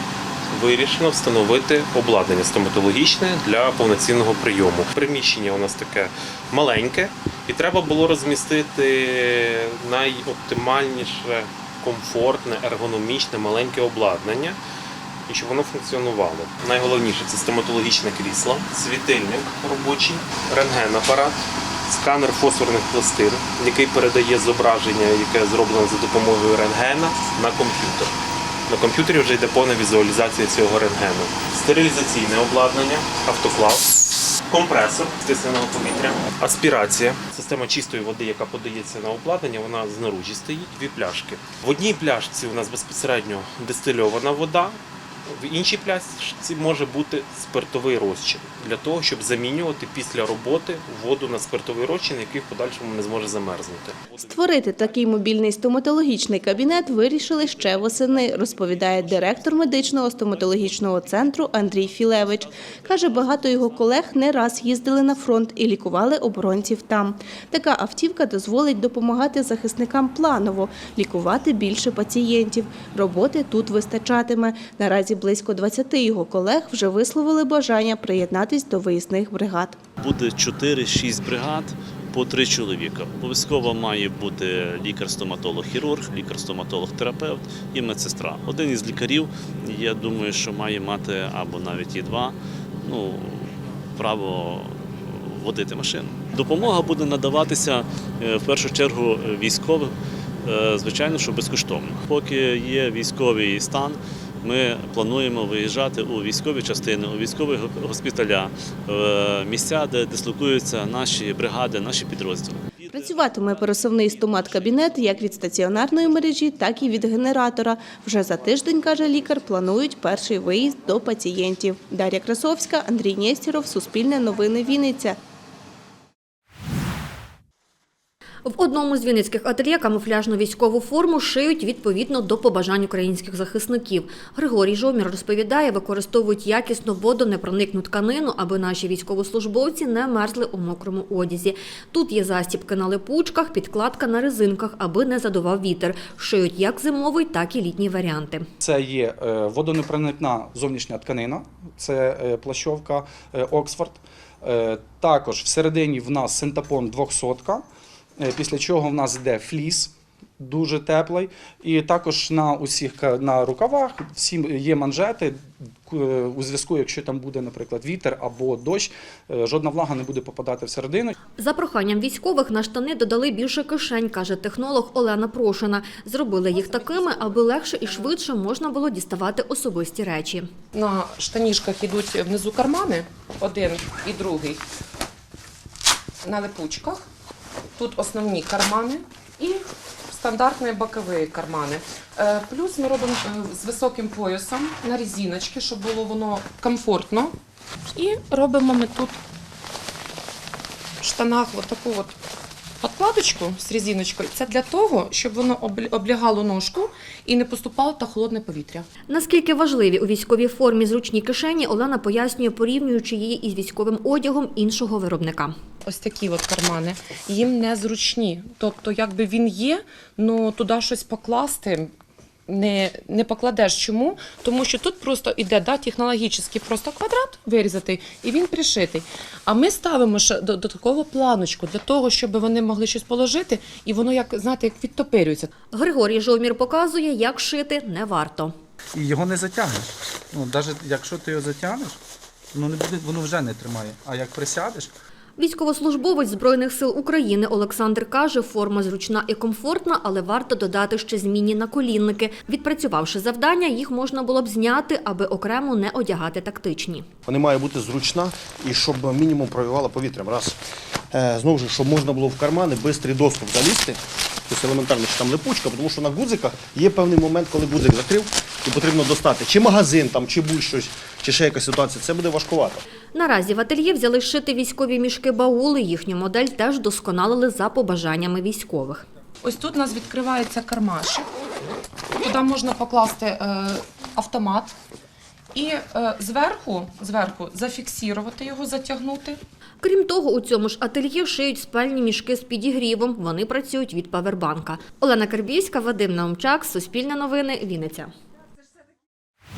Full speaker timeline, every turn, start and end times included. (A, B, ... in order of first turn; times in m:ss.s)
0:00.5-0:14.6 A
0:15.3-0:28.1 A
0:28.7-0:33.9 A
0:34.5-0:54.0 A
0:54.2-1:19.8 B
1:02.2-1:03.4 C
1:20.0-1:53.9 C
1:52.9-2:05.2 B
2:08.4-2:28.5 D
2:28.6-2:37.6 E
2:38.2-2:51.2 E
2:51.4-3:00.5 D
3:00.7-3:04.6 F
3:06.2-3:07.1 F
3:07.8-3:17.3 F
3:17.9-3:19.2 F
3:21.0-3:22.2 F
3:22.8-3:28.9 F
3:29.1-3:35.6 D
3:35.8-3:41.9 F
3:42.5-3:55.5 F
3:55.7-3:58.6 D
3:59.0-4:02.0 E
4:02.5-4:04.9 E
4:05.4-4:17.1 D
4:17.3-4:20.6 G
4:21.1-4:32.8 G
4:33.1-4:39.0 D
4:39.4-4:41.3 F
4:42.2-4:44.7 F
4:45.5-4:49.4 F
4:49.8-4:58.1 D